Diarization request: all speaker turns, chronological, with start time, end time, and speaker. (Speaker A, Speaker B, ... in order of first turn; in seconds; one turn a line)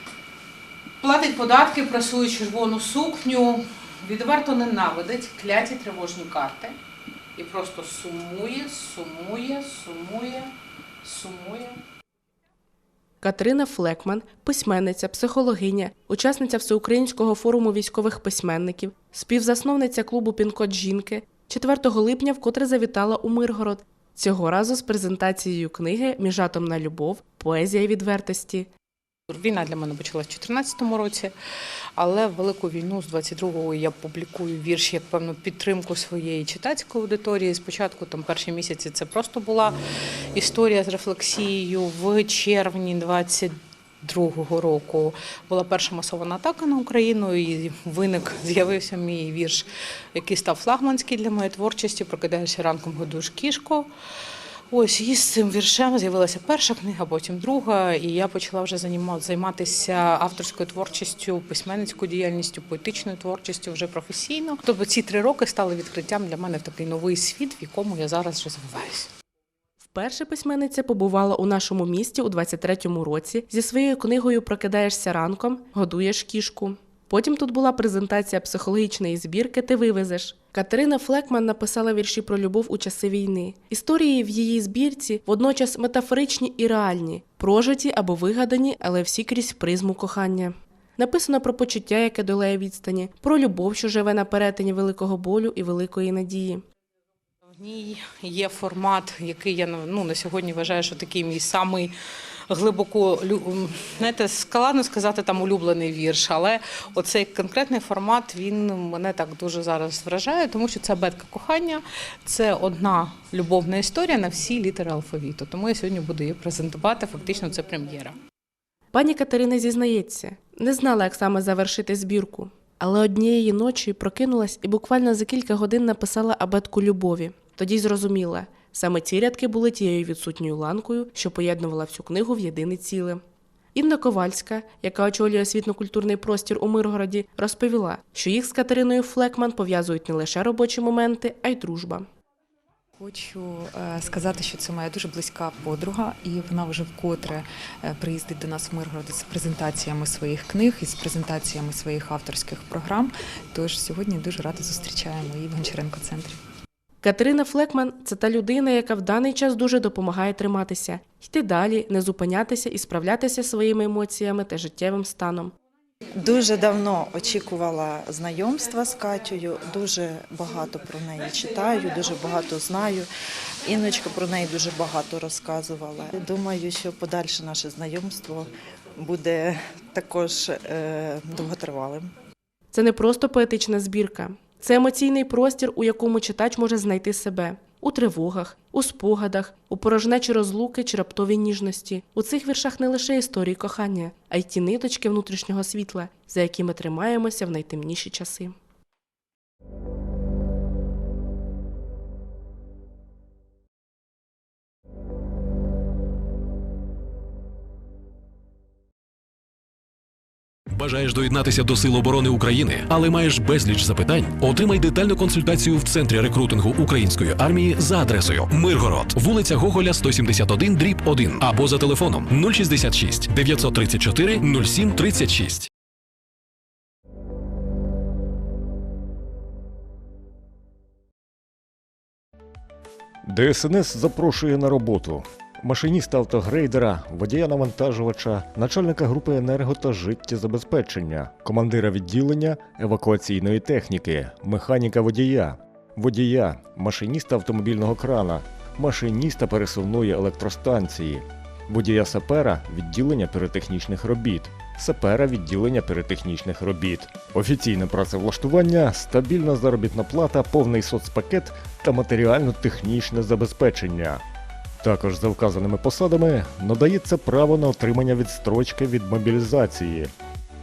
Speaker A: 1.0-6.8
Speaker A: 7.4-10.5
Speaker A: 11.0-11.8
Speaker B: 13.2-28.7
Speaker A: 29.3-31.3
Speaker A: 32.0-39.8
Speaker A: 40.4-43.5
Speaker A: 44.0-53.9
Speaker A: 54.7-69.1
Speaker B: 69.9-96.6
Speaker A: 97.6-101.9
Speaker A: 102.5-118.2
Speaker B: 118.9-133.2
Speaker B: 133.8-142.1
Speaker C: 143.0-156.4
Speaker B: 157.0-165.5
Speaker D: 166.2-173.1
Speaker D: 173.7-182.1
Speaker B: 182.7-198.6
Speaker E: 210.7-225.7
Speaker F: 233.3-264.2
Speaker F: 264.8-270.1